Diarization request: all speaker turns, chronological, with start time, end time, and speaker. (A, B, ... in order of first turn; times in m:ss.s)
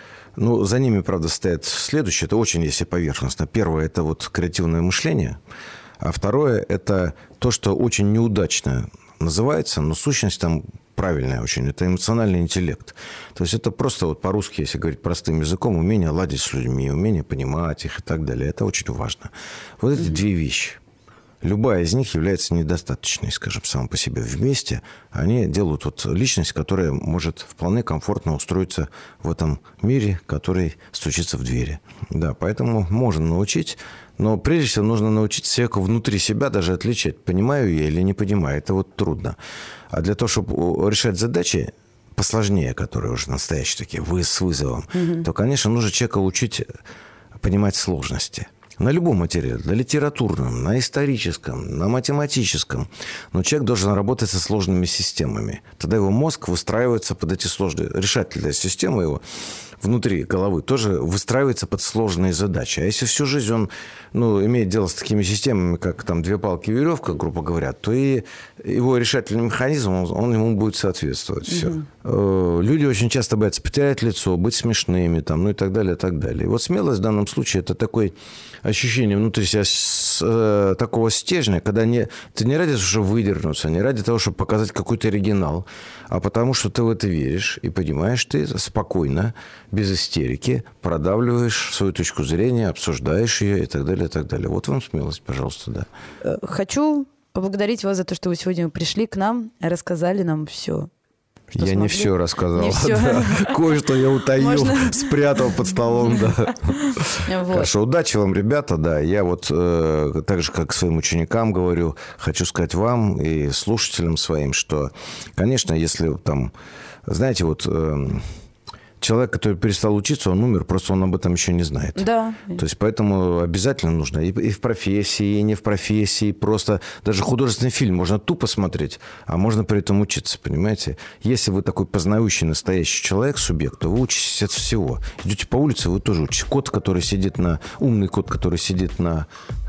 0:00.4-0:05.4 A
0:06.0-0:20.8 A
0:21.4-0:39.4 A
0:39.9-0:46.7 A
0:44.9-0:45.3 B
0:47.4-0:59.2 A
0:59.8-1:35.9 A
1:11.5-1:11.9 B
1:36.2-1:40.9 B
1:41.5-1:56.5 A
1:41.6-1:43.6 B
1:44.4-1:45.1 B
1:47.2-1:47.7 B
1:57.1-1:58.3 A
1:59.0-2:19.3 A
2:02.0-2:02.6 B